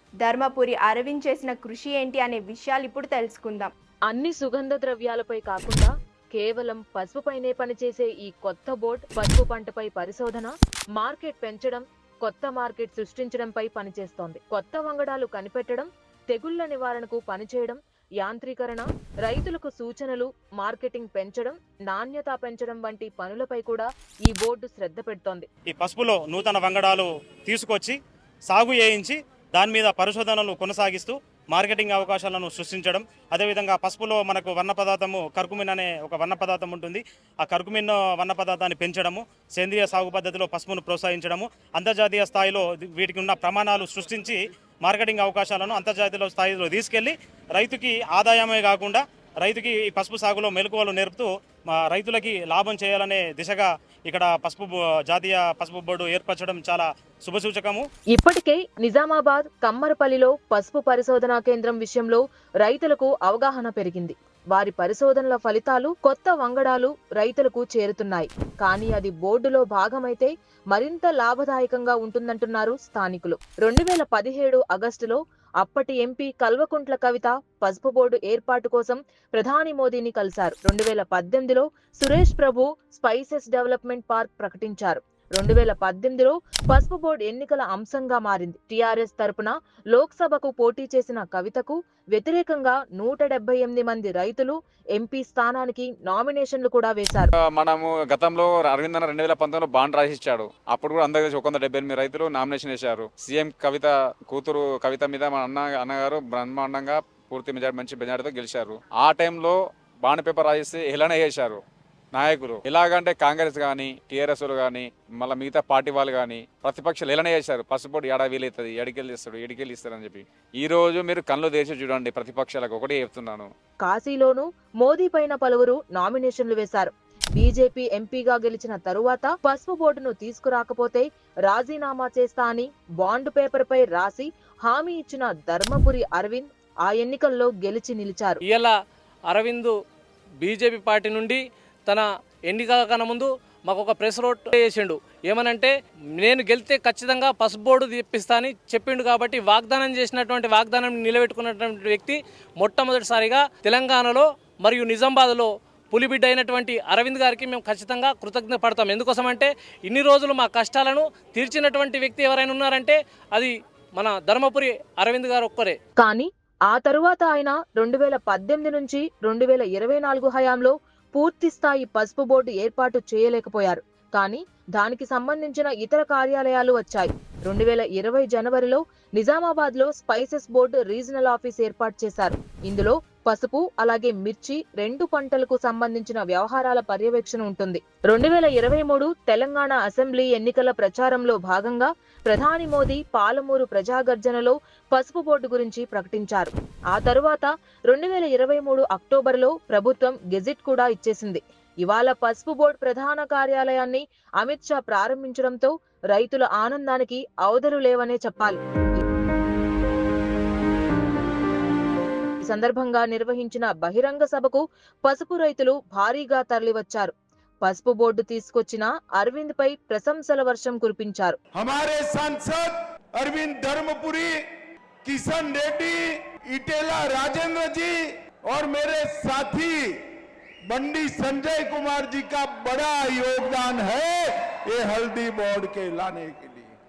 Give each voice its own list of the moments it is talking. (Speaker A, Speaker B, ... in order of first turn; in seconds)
Speaker A: 0.2-3.7
Speaker B: 4.1-25.5, 58.1-97.3, 123.8-138.4, 166.0-209.0, 212.4-221.4
Speaker C: 25.7-57.9
Speaker D: 97.4-111.6, 112.1-123.5
Speaker E: 138.5-138.7, 139.3-139.7, 140.4-165.8
Speaker F: 221.6-224.4, 225.1-230.0, 230.7-236.7